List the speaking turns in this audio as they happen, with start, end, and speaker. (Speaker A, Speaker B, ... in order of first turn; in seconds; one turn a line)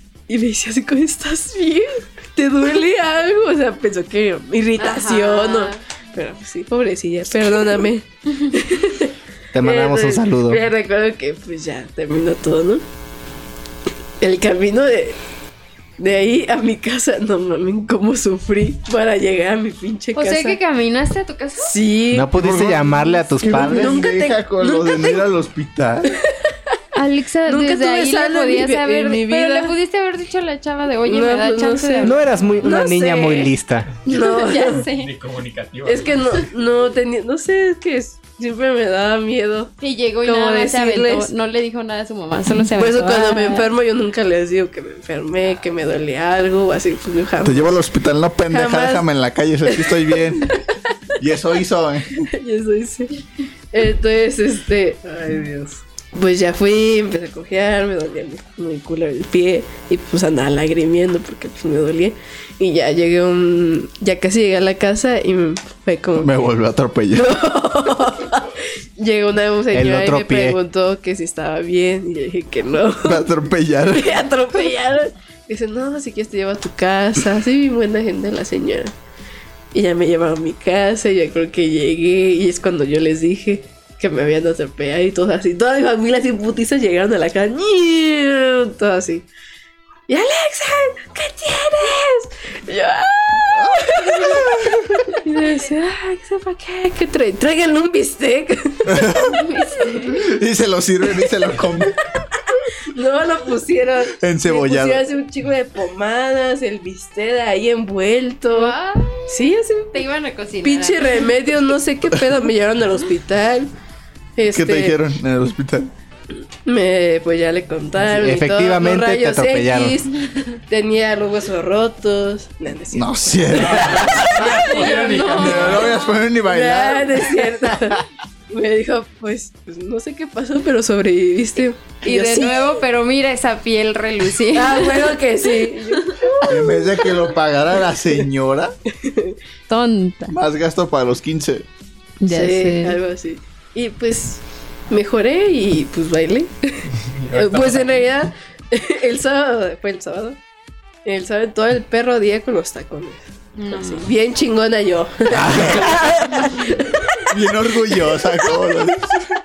Speaker A: 0.3-12.8
Speaker B: 4.8-5.8
Speaker C: 9.5-10.6
Speaker A: 14.2-15.2
Speaker A: 16.0-20.6
Speaker B: 20.1-21.8
Speaker A: 21.6-22.4
Speaker C: 22.1-24.0
Speaker D: 22.3-26.2
Speaker A: 23.4-25.2
Speaker A: 26.1-26.7
Speaker B: 26.9-32.2
Speaker A: 27.4-29.7
Speaker A: 31.0-33.5
Speaker C: 32.0-34.0
Speaker A: 34.0-34.8
Speaker B: 34.0-35.1
Speaker E: 34.8-36.5
Speaker A: 35.9-41.3
Speaker B: 39.8-43.7
Speaker A: 42.5-47.8
Speaker D: 47.4-50.6
Speaker A: 48.5-49.0
Speaker A: 49.7-50.5
Speaker D: 51.2-52.3
Speaker A: 52.2-53.2
Speaker A: 53.7-66.5
Speaker D: 66.2-67.3
Speaker A: 67.1-73.2
Speaker C: 69.7-70.6
Speaker D: 73.0-74.2
Speaker A: 73.9-78.9
Speaker A: 79.7-89.2
Speaker A: 90.1-100.2
Speaker D: 93.6-94.8
Speaker D: 98.9-99.4
Speaker B: 99.3-100.2
Speaker D: 100.0-102.0
Speaker A: 102.9-108.7
Speaker D: 104.2-105.0
Speaker B: 108.5-111.3
Speaker A: 109.3-110.0
Speaker A: 110.6-113.7
Speaker A: 114.3-115.0
Speaker D: 114.5-115.9
Speaker A: 116.6-132.7
Speaker C: 118.0-120.0
Speaker D: 122.9-124.6
Speaker E: 123.5-125.9
Speaker B: 124.6-126.1
Speaker D: 125.3-127.9
Speaker B: 132.0-135.2
Speaker A: 134.5-137.3
Speaker D: 136.5-138.7
Speaker A: 139.0-139.3
Speaker B: 139.7-140.3
Speaker D: 140.3-141.7
Speaker B: 142.2-143.0
Speaker A: 142.3-150.4
Speaker E: 146.9-148.0
Speaker A: 151.0-159.0
Speaker B: 153.6-154.1
Speaker D: 155.3-156.0
Speaker D: 157.3-159.2